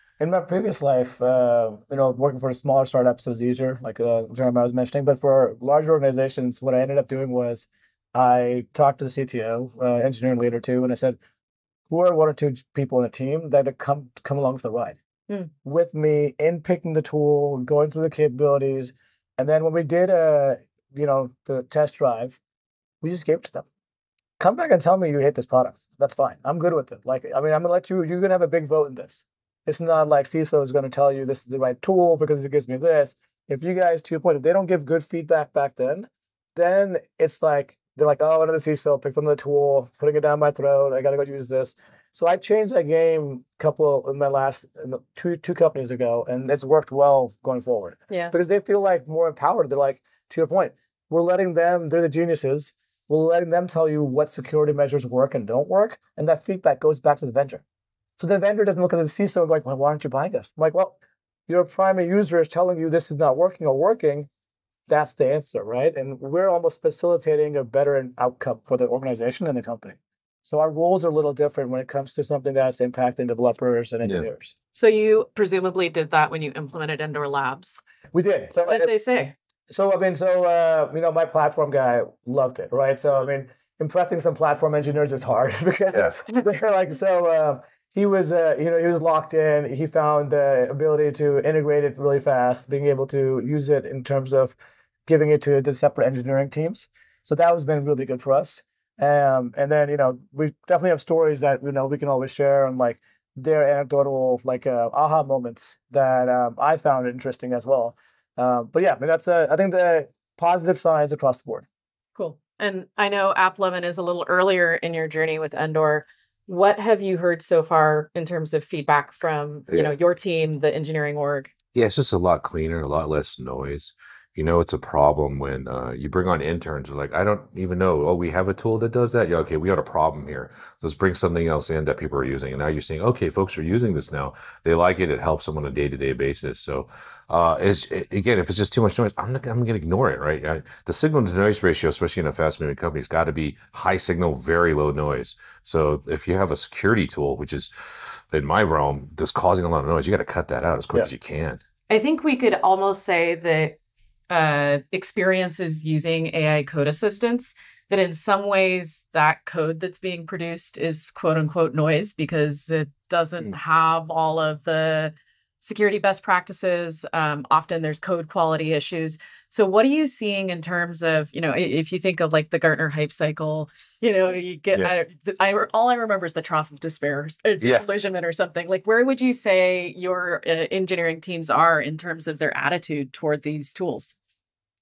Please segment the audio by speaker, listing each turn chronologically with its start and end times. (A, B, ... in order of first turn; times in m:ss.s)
0:00.2-0:11.2 A
0:11.9-0:15.0 A
0:15.6-0:22.4 A
0:23.0-0:23.7 A
0:24.4-0:57.6 A
0:58.2-1:01.0 A
1:01.5-1:04.3 A
1:04.9-1:14.5 A
1:14.7-1:17.8 B
1:18.1-1:18.9 A
1:18.5-1:19.3 B
1:19.7-1:51.6 A
1:52.1-2:01.5 B
1:59.7-2:00.0 C
2:01.7-2:31.6 C
2:31.9-2:33.8 B
2:34.3-3:04.1 B